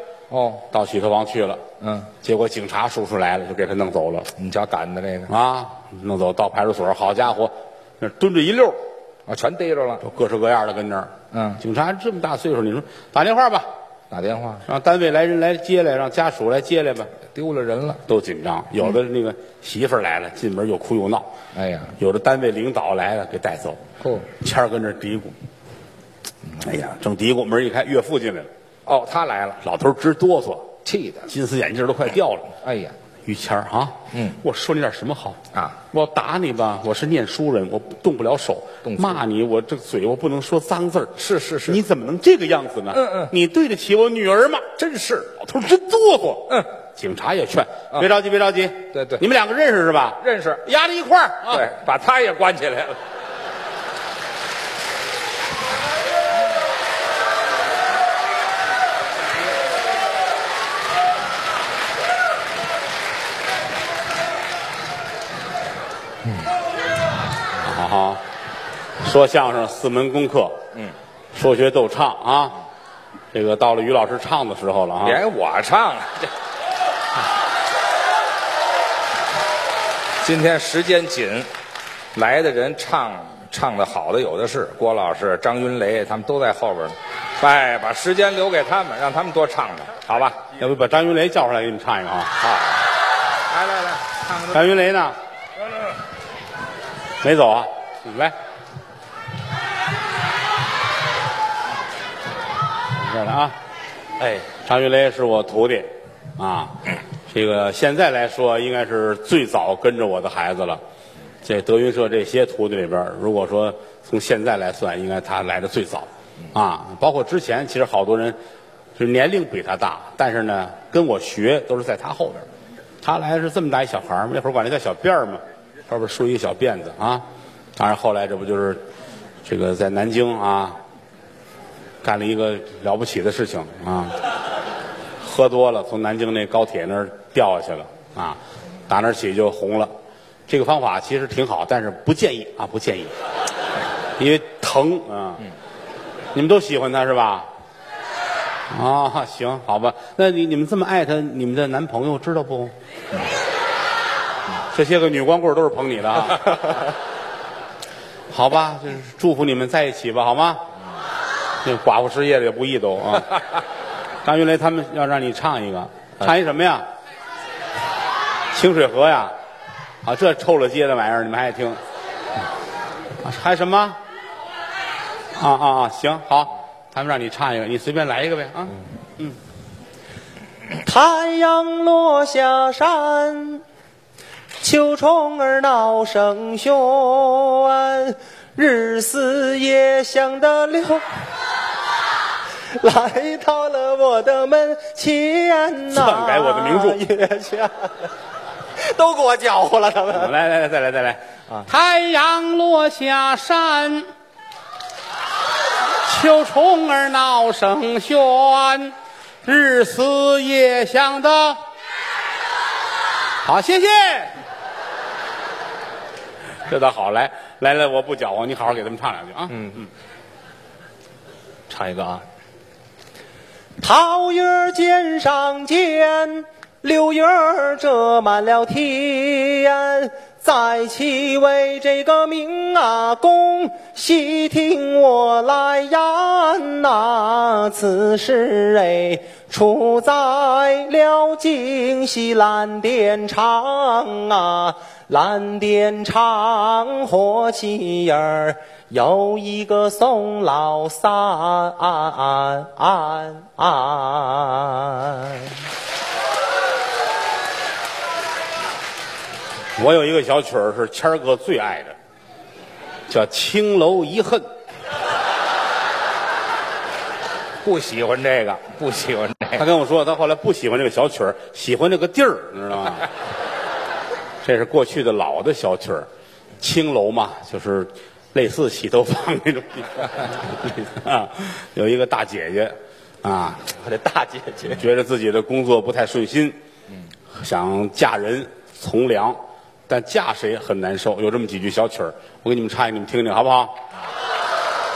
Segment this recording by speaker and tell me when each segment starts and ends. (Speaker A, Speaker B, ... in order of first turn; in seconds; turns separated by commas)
Speaker A: 0.3-0.6, Speaker B: 0.7-1.6, Speaker A: 1.8-2.1, Speaker B: 2.2-4.3, Speaker A: 4.4-5.3, Speaker B: 5.3-8.8, Speaker A: 9.3-10.0, Speaker B: 10.0-13.7, Speaker A: 11.3-11.6, Speaker A: 14.1-14.6, Speaker B: 14.6-17.1, Speaker A: 17.3-18.0, Speaker B: 18.1-21.3, Speaker A: 21.5-21.9, Speaker B: 22.0-25.4, Speaker A: 24.0-24.3, Speaker B: 26.6-28.5, Speaker A: 28.9-29.6, Speaker B: 29.6-30.7, Speaker A: 30.9-31.3, Speaker B: 31.3-32.6, Speaker A: 32.6-32.9, Speaker B: 33.3-44.7, Speaker A: 34.1-34.4, Speaker A: 38.8-39.2, Speaker A: 41.2-41.8, Speaker A: 42.9-43.3, Speaker A: 44.8-45.4, Speaker B: 45.4-51.6, Speaker A: 48.9-49.2, Speaker A: 50.2-50.6, Speaker A: 51.5-53.0, Speaker B: 67.6-68.2, Speaker B: 69.0-70.6, Speaker B: 71.3-72.6, Speaker B: 73.3-75.2, Speaker A: 75.0-76.3, Speaker A: 80.2-81.5, Speaker A: 82.1-90.4, Speaker B: 90.5-92.4, Speaker A: 92.4-92.8, Speaker A: 93.5-94.7, Speaker B: 94.4-95.2, Speaker B: 97.2-98.3, Speaker B: 102.9-103.5, Speaker B: 104.5-110.8, Speaker B: 111.4-118.4, Speaker B: 119.0-122.5, Speaker B: 123.0-127.2, Speaker B: 127.8-128.8, Speaker B: 129.4-130.8, Speaker B: 132.0-134.2, Speaker B: 135.2-139.9, Speaker B: 140.5-143.1, Speaker B: 144.2-145.5, Speaker B: 146.3-147.5, Speaker B: 148.7-152.7, Speaker B: 154.7-156.8, Speaker B: 158.3-160.6, Speaker B: 161.6-163.4, Speaker B: 164.2-166.9, Speaker B: 168.5-169.3, Speaker B: 170.0-171.8, Speaker B: 173.2-174.0, Speaker B: 175.4-179.3, Speaker C: 180.8-183.6, Speaker C: 184.6-191.1, Speaker C: 192.8-198.1, Speaker B: 195.9-197.0, Speaker C: 198.8-200.3, Speaker B: 200.1-204.1, Speaker B: 206.0-211.6, Speaker B: 213.4-214.3, Speaker B: 216.7-219.9, Speaker A: 219.5-219.8, Speaker A: 221.7-222.2, Speaker C: 223.8-255.5, Speaker B: 259.8-261.9, Speaker B: 263.1-264.4, Speaker A: 267.6-269.6, Speaker B: 269.6-273.1, Speaker B: 274.4-276.1, Speaker B: 276.6-283.7, Speaker C: 283.8-284.8, Speaker B: 284.6-286.6, Speaker B: 287.3-293.8